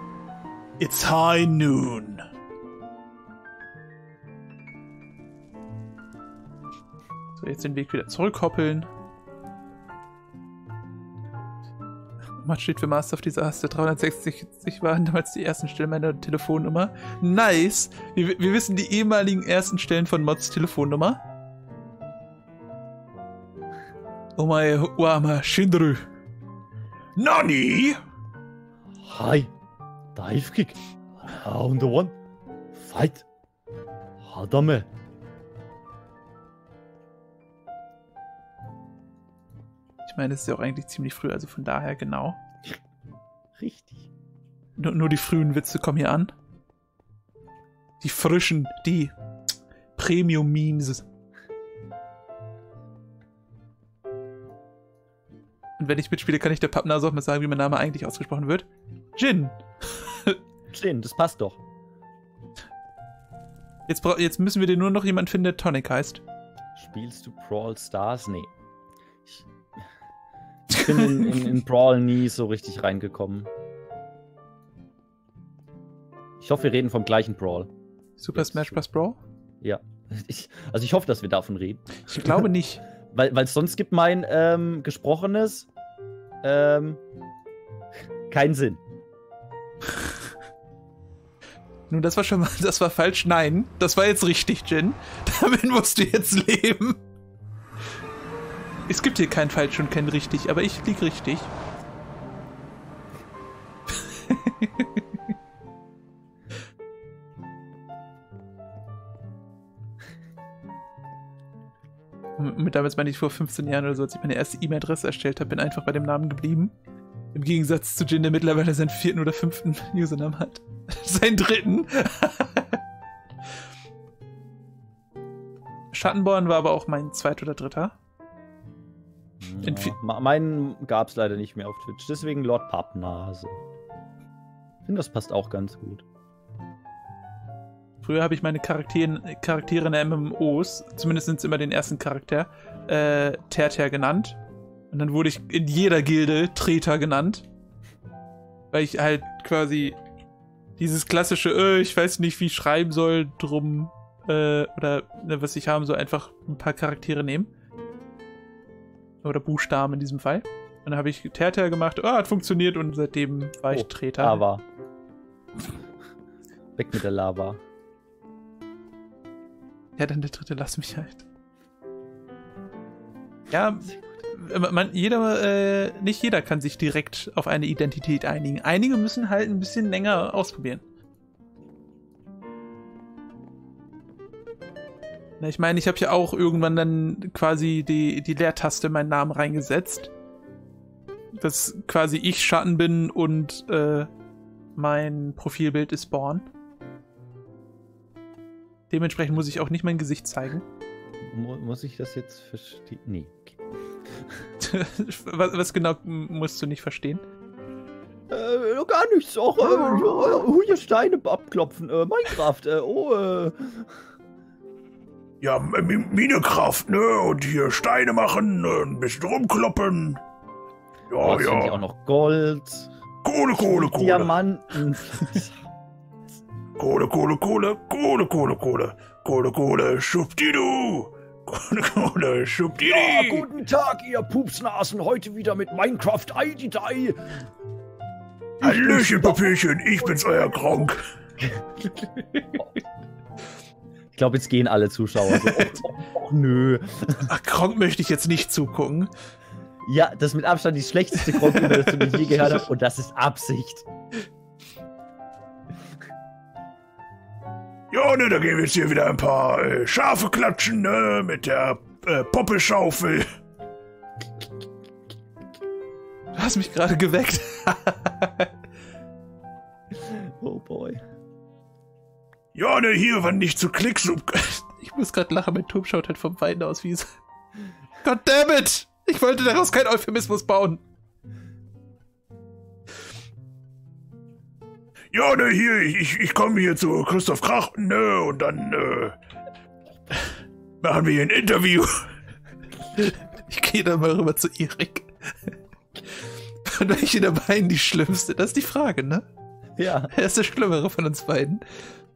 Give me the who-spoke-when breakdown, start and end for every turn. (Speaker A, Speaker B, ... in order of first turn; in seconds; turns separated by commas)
Speaker A: 0.8-2.2, Speaker B: 7.4-8.9, Speaker B: 12.4-21.2, Speaker B: 24.4-26.0, Speaker A: 27.2-28.0, Speaker C: 29.0-29.5, Speaker C: 30.1-32.1, Speaker C: 32.7-33.2, Speaker C: 34.2-34.9, Speaker B: 40.0-42.4, Speaker C: 43.6-44.1, Speaker B: 44.8-46.3, Speaker B: 48.0-49.1, Speaker B: 50.0-51.0, Speaker B: 55.8-60.4, Speaker C: 60.7-61.6, Speaker B: 63.9-66.2, Speaker C: 66.7-68.5, Speaker C: 70.7-73.5, Speaker B: 71.0-71.5, Speaker C: 76.4-77.7, Speaker B: 78.2-79.2, Speaker C: 78.3-78.8, Speaker C: 79.6-82.4, Speaker B: 82.0-82.8, Speaker C: 83.1-85.7, Speaker C: 86.4-87.0, Speaker C: 88.3-88.8, Speaker B: 91.9-97.0, Speaker B: 98.9-101.5, Speaker B: 104.0-105.0, Speaker B: 112.4-116.7, Speaker B: 117.3-122.8, Speaker B: 125.9-128.0, Speaker C: 129.4-133.6, Speaker B: 129.6-129.9, Speaker C: 134.8-136.0, Speaker B: 138.0-144.4, Speaker B: 144.9-147.4, Speaker B: 148.7-150.0, Speaker B: 150.8-157.5, Speaker B: 159.2-164.4, Speaker C: 163.7-164.6, Speaker C: 166.8-167.6, Speaker B: 170.0-171.2, Speaker B: 173.5-180.8, Speaker B: 185.4-190.1, Speaker B: 191.3-194.1, Speaker B: 194.8-196.4, Speaker B: 198.9-200.6, Speaker C: 201.2-203.6, Speaker B: 204.6-207.2, Speaker C: 208.3-213.9, Speaker A: 215.4-220.2, Speaker A: 221.1-221.8, Speaker C: 221.2-222.9, Speaker A: 223.2-224.3, Speaker C: 223.5-225.6, Speaker A: 226.8-233.5, Speaker C: 232.8-237.4, Speaker C: 238.6-239.5, Speaker A: 238.6-241.0, Speaker C: 244.1-247.3, Speaker B: 245.2-245.8, Speaker B: 247.2-249.1, Speaker C: 249.8-253.8, Speaker B: 251.3-252.3, Speaker A: 257.9-263.3, Speaker B: 266.3-268.5, Speaker C: 269.9-271.0, Speaker A: 272.5-274.6, Speaker B: 274.7-277.2, Speaker B: 278.0-280.8, Speaker A: 285.1-289.2, Speaker A: 290.8-292.0, Speaker B: 292.9-295.5, Speaker B: 296.6-299.2, Speaker C: 299.8-300.1, Speaker B: 300.1-301.6